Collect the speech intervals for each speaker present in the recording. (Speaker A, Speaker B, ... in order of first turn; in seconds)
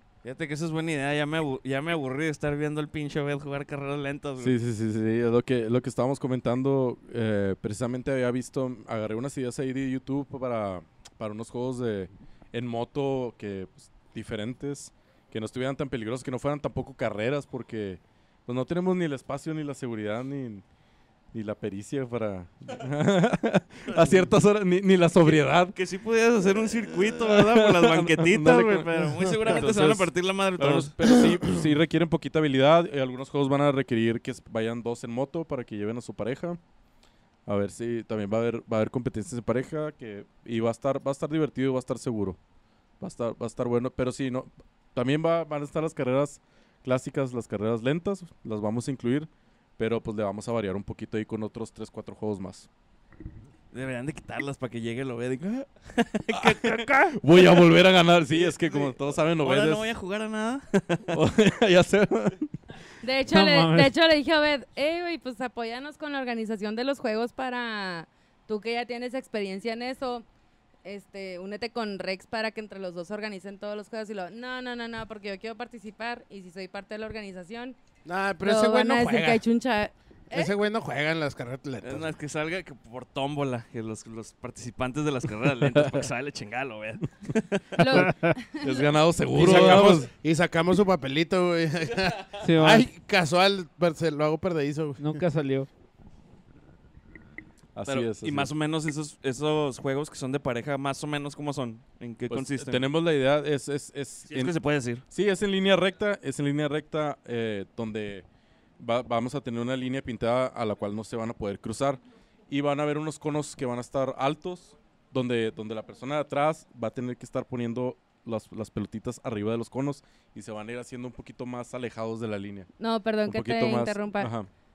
Speaker A: 0.2-4.5, 23.9-24.3, 25.2-31.0, 53.7-57.6, 58.3-61.1, 81.8-87.6, 89.3-90.0, 97.8-102.8, 104.3-105.0
Speaker B: 4.4-20.6, 21.3-25.8, 27.3-36.6, 37.5-42.4, 43.0-52.7, 56.3-59.9, 61.1-62.5, 88.6-90.1, 97.7-98.5, 102.3-104.5, 105.1-108.2, 108.8-122.7, 123.2-124.5
Speaker C: 63.0-70.2, 70.8-77.8, 78.4-80.5, 87.8-88.9, 122.8-124.3
Speaker D: 63.3-63.9, 88.0-88.3, 92.4-92.9, 95.0-95.7
Speaker E: 78.0-79.4, 80.3-82.1, 89.4-95.0